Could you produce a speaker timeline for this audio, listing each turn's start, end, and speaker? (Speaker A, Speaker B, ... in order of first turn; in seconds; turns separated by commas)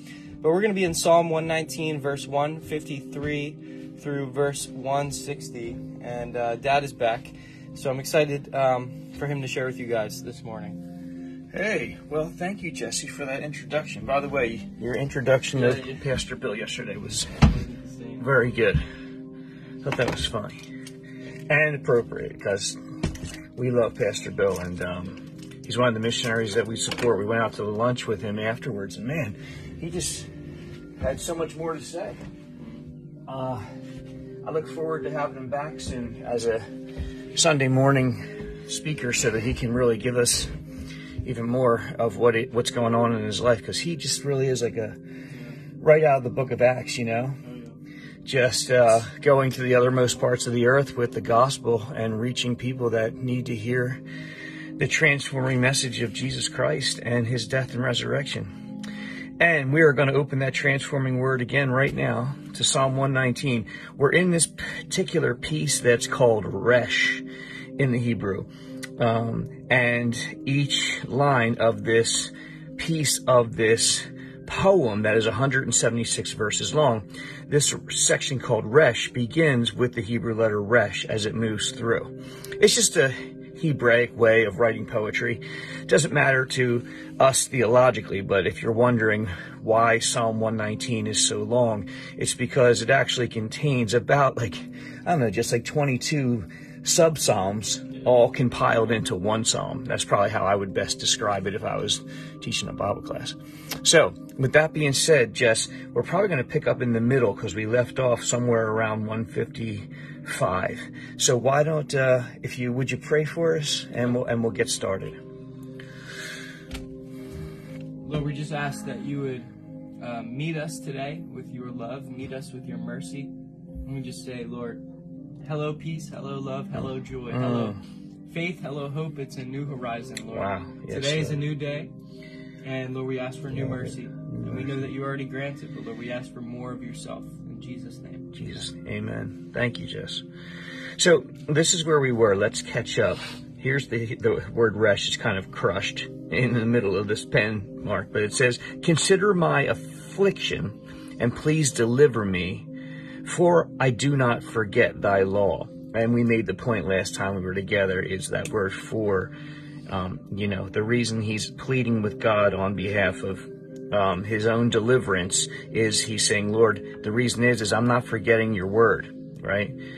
Speaker A: 0.4-10.8, Speaker B: 11.5-17.4, Speaker A: 15.5-16.1, Speaker A: 17.4-18.3, Speaker B: 18.2-18.8, Speaker B: 19.8-20.6, Speaker B: 21.5-22.8, Speaker B: 23.6-30.3, Speaker B: 31.0-32.2, Speaker A: 32.6-32.8, Speaker B: 33.3-33.7, Speaker B: 34.4-36.7, Speaker B: 37.3-40.5, Speaker B: 41.2-45.0, Speaker A: 45.3-45.6, Speaker B: 45.8-47.4, Speaker A: 47.4-47.8, Speaker B: 48.2-54.0, Speaker B: 54.8-58.5, Speaker B: 59.4-67.2, Speaker B: 67.8-115.2, Speaker A: 118.0-123.3, Speaker A: 123.8-124.8, Speaker A: 125.4-131.9, Speaker B: 127.3-127.8, Speaker B: 130.3-131.4, Speaker A: 132.6-138.3, Speaker B: 133.5-134.8, Speaker B: 138.3-140.2, Speaker B: 141.0-152.7, Speaker B: 153.2-159.3, Speaker B: 159.9-169.8